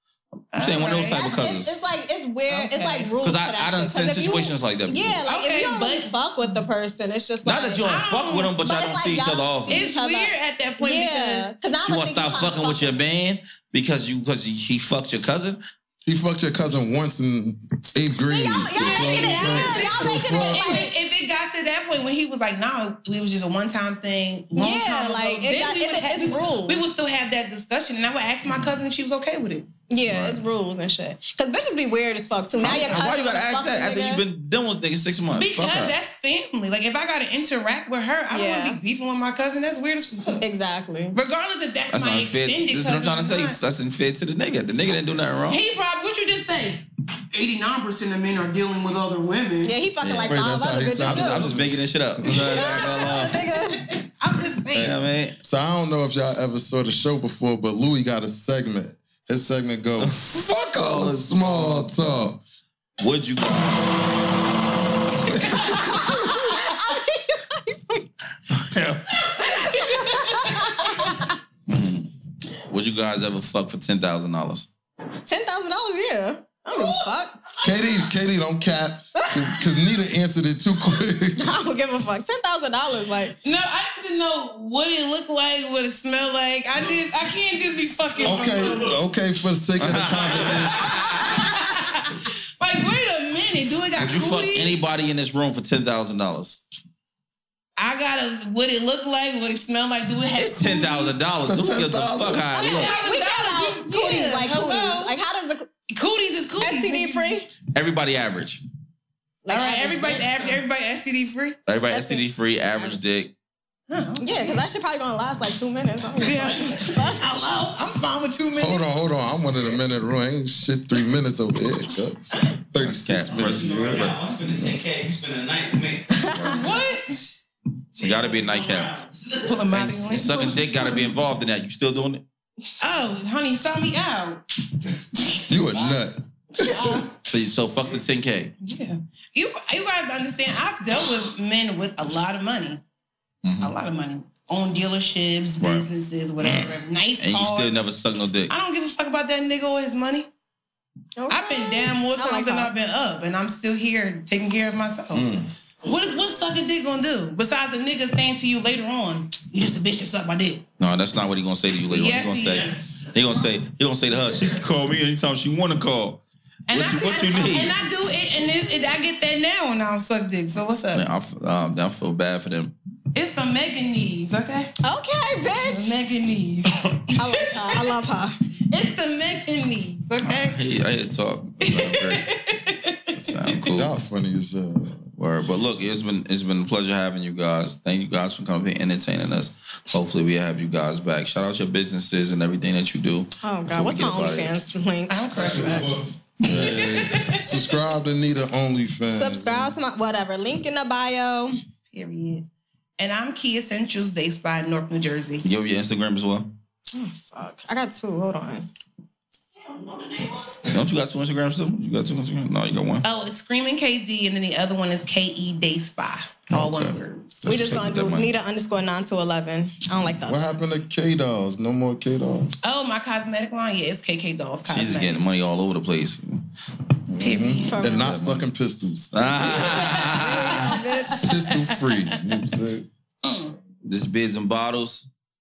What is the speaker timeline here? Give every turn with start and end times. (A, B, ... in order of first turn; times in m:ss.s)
0:00.5-0:01.8 A
0:00.5-0:01.3 B
0:01.1-0:07.9 C
0:02.5-0:03.1 B
0:03.2-0:05.2 A
0:05.3-0:06.1 B
0:07.4-0:09.8 A
0:07.8-0:08.6 B
0:08.6-0:13.0 C
0:09.7-0:11.5 B
0:11.8-0:15.6 A
0:16.0-0:20.8 D
0:18.2-0:20.9 C
0:18.8-0:29.7 B
0:24.6-0:26.8 C
0:28.4-0:28.7 A
0:29.9-0:34.2 C
0:30.1-0:30.4 A
0:32.6-0:36.0 A
0:35.4-0:40.4 B
0:38.3-0:38.8 C
0:40.4-0:41.2 C
0:41.1-0:43.6 B
0:41.9-0:45.6 A
0:45.5-0:49.8 B
0:49.6-0:51.6 C
0:50.0-0:50.4 A
0:50.3-0:53.3 D
0:51.0-0:53.4 A
0:52.3-0:53.9 C
0:52.8-0:54.9 B
0:54.7-1:02.4 D
0:54.8-0:55.4 A
1:00.0-1:02.2 A
1:03.0-1:04.0 A
1:05.3-1:06.4 D
1:05.5-1:08.1 C
1:08.5-1:09.4 A
1:09.4-1:10.7 B
1:09.4-1:11.3 C
1:11.7-1:12.1 A
1:12.6-1:14.7 A
1:15.3-1:17.4 C
1:16.7-1:17.1 B
1:17.6-1:21.5 D
1:21.4-1:23.4 C
1:23.4-1:28.9 B
1:28.2-1:29.0 E
1:28.2-1:31.0 D
1:29.8-1:31.4 A
1:30.2-1:31.2 E
1:31.2-1:34.8 B
1:34.0-1:36.6 A
1:37.8-1:41.1 B
1:40.4-1:42.9 A
1:41.4-1:42.5 D
1:42.6-1:45.7 C
1:42.6-1:45.2 B
1:45.9-1:47.4 B
1:46.6-1:47.5 C
1:47.7-1:48.6 A
1:49.4-1:50.6 C
1:49.5-1:51.6 B
1:51.7-1:53.3 A
1:51.9-1:53.0 C
1:53.9-1:54.6 B
1:54.2-1:57.5 C
1:56.2-1:58.8 B
1:58.6-2:04.2 D
2:02.8-2:04.4 A
2:03.4-2:06.3 E
2:06.1-2:06.9 C
2:06.4-2:07.4 B
2:08.0-2:09.7 E
2:08.0-2:08.9 A
2:09.4-2:11.1 B
2:09.7-2:12.2 A
2:12.8-2:14.4 B
2:15.0-2:16.0 B
2:15.5-2:17.1 D
2:16.6-2:17.1 B
2:17.2-2:18.5 A
2:18.6-2:22.8 B
2:23.4-2:23.7 A
2:23.6-2:27.8 B
2:25.6-2:25.9 A
2:27.2-2:28.5 A
2:28.5-2:30.3 B
2:31.2-2:32.7 C
2:31.3-2:35.3 B
2:35.1-2:35.5 D
2:35.8-2:36.4 E
2:35.8-2:40.6 B
2:40.8-2:47.8 A
2:41.9-2:43.0 B
2:46.7-2:51.1 B
2:50.9-2:52.7 A
2:53.1-2:54.7 B
2:54.8-2:56.0 C
2:55.6-2:57.9 B
2:57.1-2:58.4 C
2:58.7-3:00.6 B
3:00.2-3:02.3 A
3:01.6-3:03.4 B
3:03.1-3:03.9 A
3:03.7-3:05.0 D
3:05.2-3:14.6 A
3:13.4-3:15.8 C
3:15.1-3:17.7 B
3:15.6-3:15.9 E
3:16.4-3:19.7 D
3:19.1-3:21.6 C
3:21.9-3:22.4 B
3:23.0-3:25.4 B
3:25.4-3:26.5 A
3:26.9-3:28.7 C
3:29.7-3:30.4 B
3:30.6-3:33.1 A
3:33.0-3:37.4 B
3:36.5-3:38.3 A
3:37.4-3:40.5 C
3:40.2-3:42.6 D
3:42.6-3:45.2 B
3:44.7-3:46.4 A
3:47.1-3:49.5 D
3:47.2-3:48.1 B
3:47.3-3:48.5 C
3:49.1-3:50.8 A
3:49.4-3:51.9 B
3:50.2-3:51.3 C
3:51.2-3:52.9 D
3:53.2-3:53.6 B
3:53.8-3:55.1 A